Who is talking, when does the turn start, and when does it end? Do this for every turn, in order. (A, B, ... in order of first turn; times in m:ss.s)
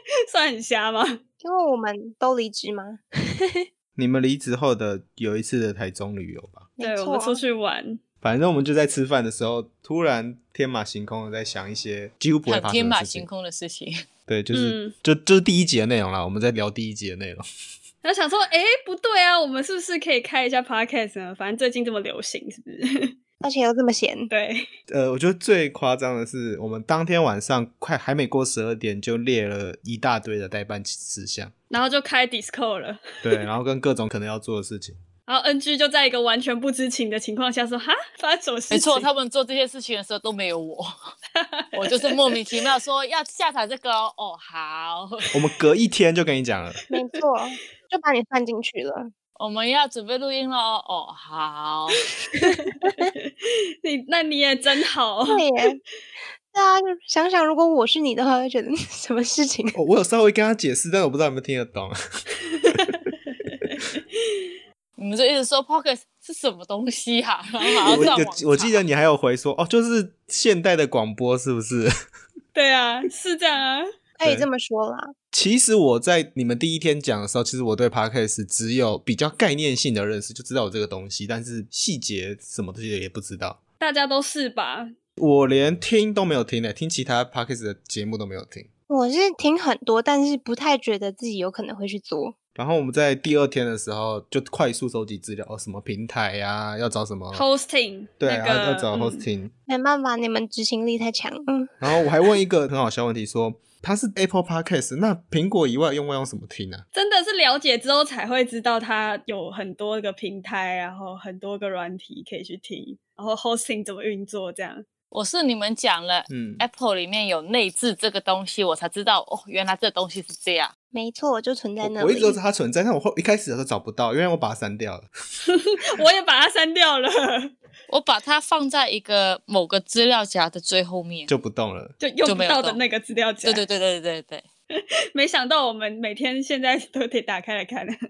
0:00.3-0:01.2 A
0:01.4-0:03.6 B
0:04.0-0:06.7 C
0:06.8-0:07.4 B
0:06.8-0:08.0 A
0:08.2-0:13.3 C
0:12.5-0:14.0 D
0:14.3-0:17.4 C
0:14.5-0:14.9 A
0:18.0-0:23.1 A
0:23.4-0:24.3 B
0:24.3-0:24.7 A
0:24.9-0:31.5 C
0:31.7-0:33.4 A
0:33.2-0:35.0 C
0:35.3-0:39.1 A
0:38.7-0:40.9 D
0:41.4-0:42.6 A
0:41.7-0:45.3 D
0:45.3-0:46.8 C
0:46.9-0:49.1 B
0:49.4-0:52.0 D
0:52.3-0:55.4 A
0:55.3-0:55.8 B
0:56.5-0:59.8 B
0:59.7-1:03.0 C
1:02.7-1:04.5 A
1:05.0-1:08.8 D
1:07.6-1:08.2 A
1:07.9-1:11.9 C
1:12.5-1:13.9 A
1:14.2-1:15.1 B
1:15.3-1:23.6 C
1:23.8-1:24.9 A
1:25.2-1:28.7 C
1:28.9-1:32.4 B
1:32.6-1:37.5 C
1:37.3-1:39.3 A
1:38.2-1:39.5 C
1:39.7-1:42.0 B
1:41.8-1:46.8 C
1:46.9-1:54.8 A
1:55.1-2:00.7 D
1:56.3-1:56.6 C
2:00.9-2:02.4 B
2:01.8-2:05.1 C
2:05.5-2:07.5 A
2:07.9-2:11.3 D
2:11.3-2:12.0 C
2:12.0-2:13.6 A
2:12.3-2:12.8 D
2:13.4-2:14.4 D
2:14.8-2:18.0 A